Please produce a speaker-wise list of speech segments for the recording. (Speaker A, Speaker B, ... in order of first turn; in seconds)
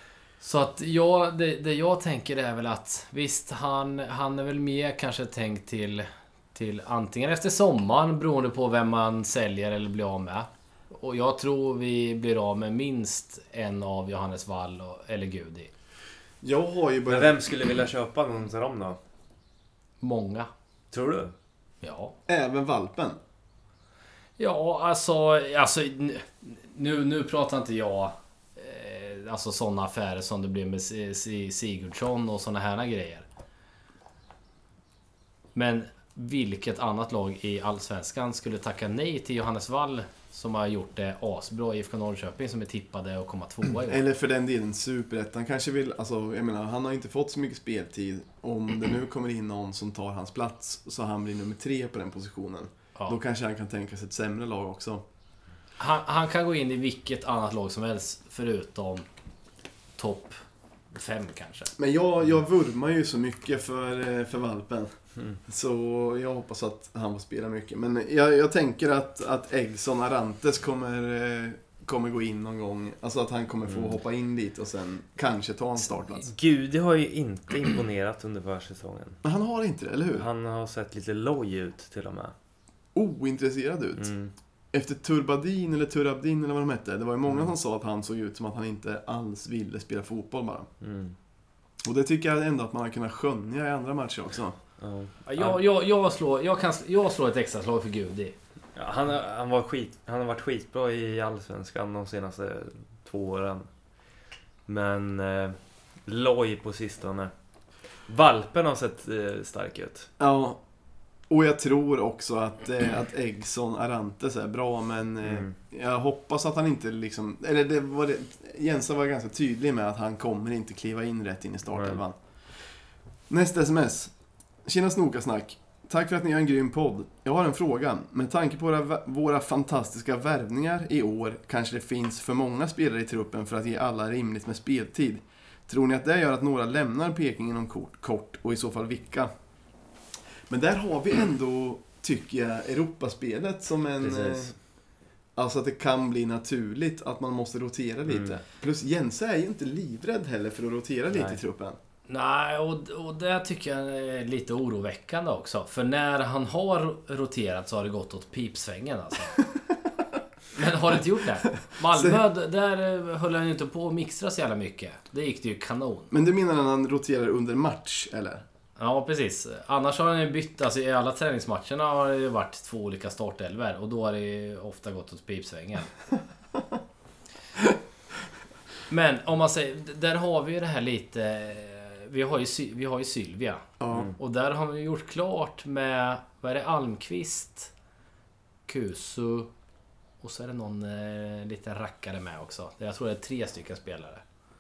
Speaker A: 0.4-15.7, 20.0-20.5, 21.8-22.1, 24.4-33.3, 35.5-44.0, 55.8-59.1, 60.0-60.4, 60.9-61.7, 95.3-98.3, 152.1-159.4, 160.5-166.1, 168.8-175.9, 178.9-187.7, 188.7-189.5, 190.2-194.2
Speaker B: 16.4-17.4, 22.3-23.2, 43.9-55.0, 61.8-64.9, 65.5-76.3, 79.2-80.3, 82.9-84.1, 84.7-90.7, 91.8-94.6, 110.2-110.6, 111.3-122.2, 123.3-124.1, 124.6-139.3, 140.5-144.5, 145.3-151.8, 161.9-162.2, 166.1-168.4, 183.8-184.1
Speaker C: 17.1-19.0, 20.9-21.3, 73.7-74.0, 76.2-79.2, 80.1-82.3, 84.0-84.3, 90.8-91.1, 94.8-95.6, 98.8-103.7, 104.7-107.3, 108.1-110.1, 115.2-115.5, 121.7-122.0, 144.0-144.6, 148.1-148.4, 151.1-151.4